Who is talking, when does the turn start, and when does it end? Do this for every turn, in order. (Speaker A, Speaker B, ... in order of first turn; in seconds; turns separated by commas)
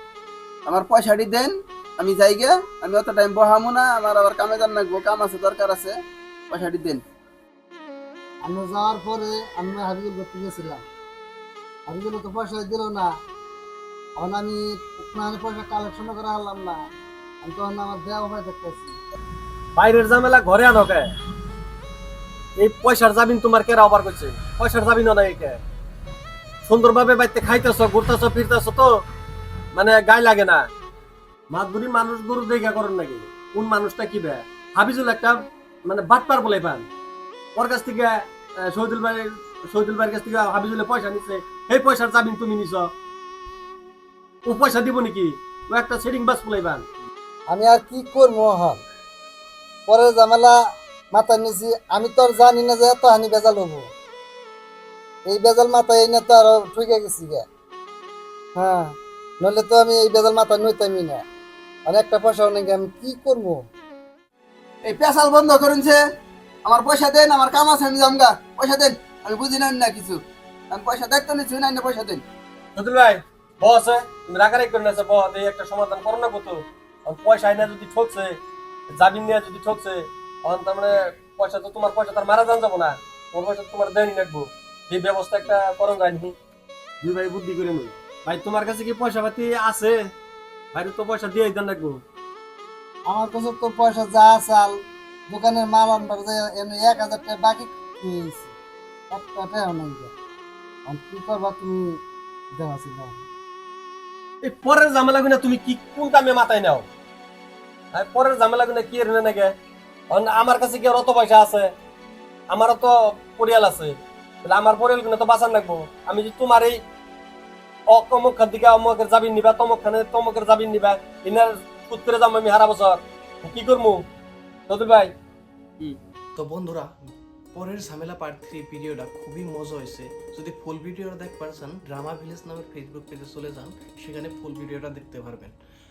Speaker A: 0.7-5.9, Speaker A: 6.5-7.0, Speaker B: 8.4-10.8, Speaker B: 11.9-13.1, Speaker B: 14.2-16.8, Speaker B: 17.4-18.9, Speaker C: 19.8-21.1, Speaker C: 22.6-25.6, Speaker C: 26.6-28.9, Speaker C: 29.7-30.6, Speaker C: 31.5-36.9, Speaker C: 37.5-42.9, Speaker C: 44.5-46.8, Speaker B: 47.5-48.8, Speaker B: 49.9-50.5, Speaker B: 51.1-53.9, Speaker B: 55.3-57.4, Speaker B: 58.6-61.2, Speaker B: 61.9-63.6, Speaker A: 64.8-66.0, Speaker A: 66.6-72.2, Speaker C: 72.8-78.3, Speaker C: 78.9-86.3, Speaker C: 87.0-90.0, Speaker C: 90.7-92.0, Speaker B: 93.1-94.8, Speaker B: 95.3-98.5, Speaker B: 99.1-100.1, Speaker B: 100.9-102.0, Speaker B: 102.5-103.2, Speaker C: 104.4-106.8, Speaker C: 107.9-109.5, Speaker C: 110.1-111.7, Speaker C: 112.5-116.8, Speaker C: 117.9-124.0, Speaker C: 124.7-125.1, Speaker D: 126.3-126.9, Speaker D: 127.5-135.5